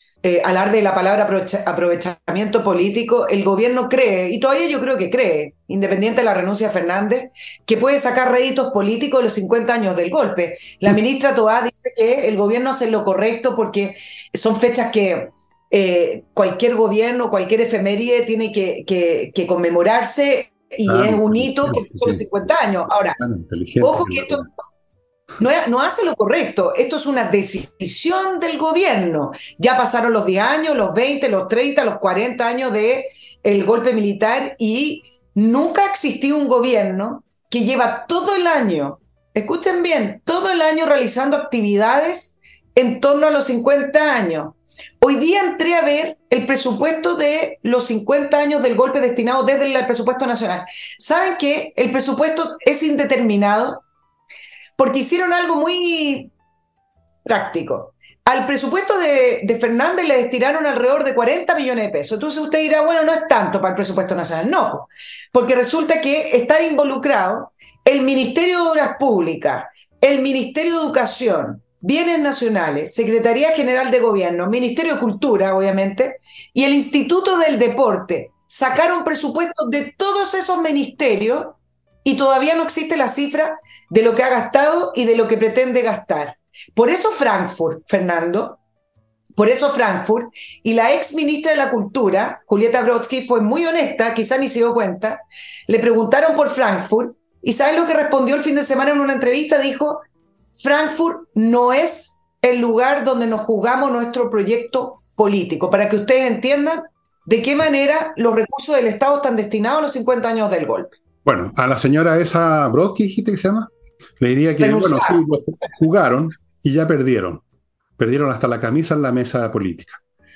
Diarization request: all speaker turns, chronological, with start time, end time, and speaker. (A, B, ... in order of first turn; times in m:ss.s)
0:00.2-0:23.2 A
0:20.9-0:22.2 B
0:23.2-0:24.5 B
0:23.8-0:24.5 A
0:25.4-0:53.8 A
0:54.8-0:56.3 A
0:57.3-1:28.6 A
1:29.4-1:40.0 A
1:40.6-1:51.0 A
1:51.2-1:57.4 B
1:54.6-1:55.2 A
1:58.0-2:00.0 B